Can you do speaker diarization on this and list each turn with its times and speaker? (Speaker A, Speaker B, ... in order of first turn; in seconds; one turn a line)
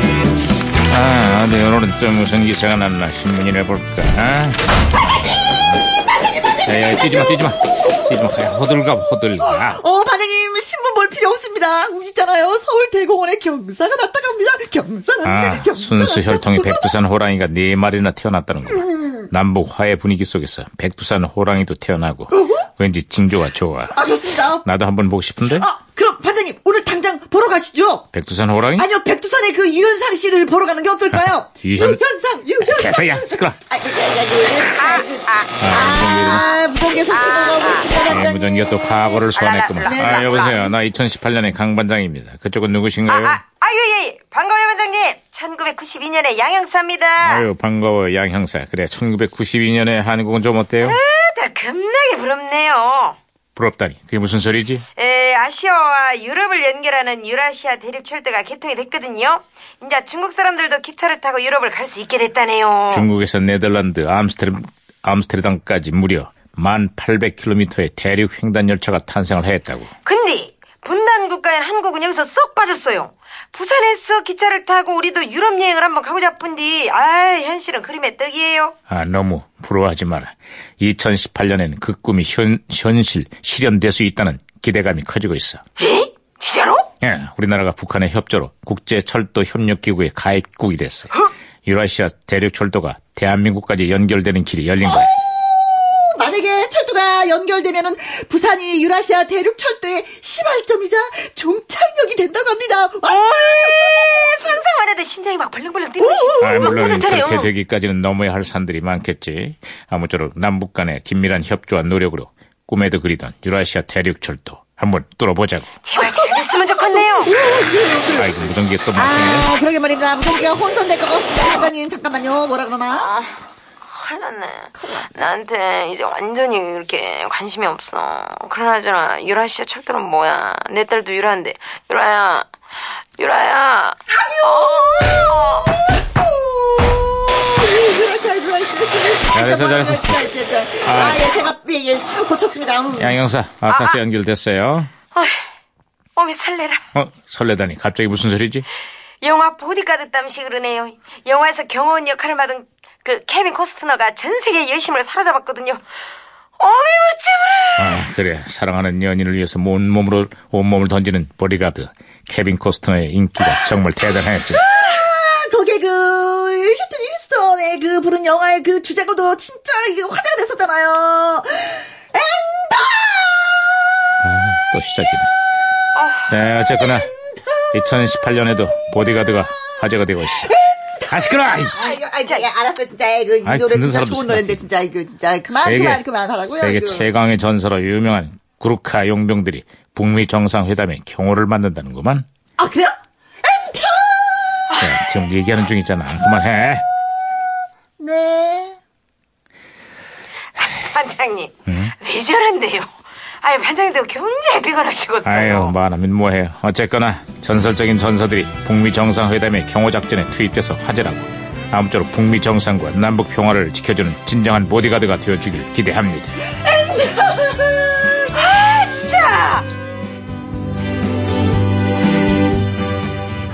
Speaker A: 0.9-5.8
Speaker B: 6.5-7.3
Speaker A: 6.6-9.8
Speaker B: 9.4-16.9
Speaker A: 15.2-24.0
Speaker B: 18.7-19.3
Speaker B: 22.3-22.7
Speaker B: 23.9-24.7
Speaker A: 24.6-25.7
Speaker B: 25.6-28.1
Speaker A: 28.1-28.9
Speaker B: 28.7-38.9
Speaker A: 31.1-32.0
Speaker A: 32.6-33.6
Speaker C: 34.8-38.1
Speaker A: 35.6-36.5
Speaker A: 38.0-43.4
Speaker C: 39.3-40.7
Speaker B: 39.9-40.6
Speaker C: 43.1-47.5
Speaker A: 47.2-51.0
Speaker C: 50.8-53.2
Speaker A: 53.5-54.8
Speaker C: 55.0-63.1
Speaker A: 62.9-69.9
Speaker C: 70.0-78.7
Speaker A: 78.9-85.6
Speaker C: 85.8-86.9
Speaker A: 87.0-91.1
Speaker A: 91.6-95.1
Speaker B: 94.8-104.5
Speaker C: 103.1-107.5
Speaker B: 106.0-106.6
Speaker A: 106.4-115.7
Speaker C: 115.8-117.4
Speaker B: 116.0-123.1
Speaker A: 118.1-119.5
Speaker C: 122.9-132.5
Speaker B: 124.8-125.1
Speaker C: 133.2-135.7
Speaker B: 134.1-135.4
Speaker B: 136.0-143.2
Speaker A: 139.3-140.3
Speaker A: 140.8-141.2
Speaker A: 142.9-144.9
Speaker C: 143.7-144.0
Speaker C: 145.1-145.4
Speaker C: 146.2-146.8
Speaker A: 146.9-148.7
Speaker C: 149.2-155.8
Speaker C: 156.6-158.0
Speaker A: 157.8-164.7
Speaker B: 164.6-174.1
Speaker A: 174.2-175.3
Speaker C: 175.9-176.3
Speaker A: 176.3-177.1
Speaker A: 177.7-180.5
Speaker B: 180.4-187.1
Speaker A: 181.1-181.8
Speaker C: 181.8-182.5
Speaker A: 183.4-184.6
Speaker A: 185.6-192.2
Speaker B: 192.6-194.7
Speaker A: 194.8-196.8
Speaker B: 198.0-198.8
Speaker C: 200.6-205.8
Speaker A: 201.7-201.9
Speaker A: 205.2-216.3
Speaker B: 216.7-217.9
Speaker C: 218.3-219.7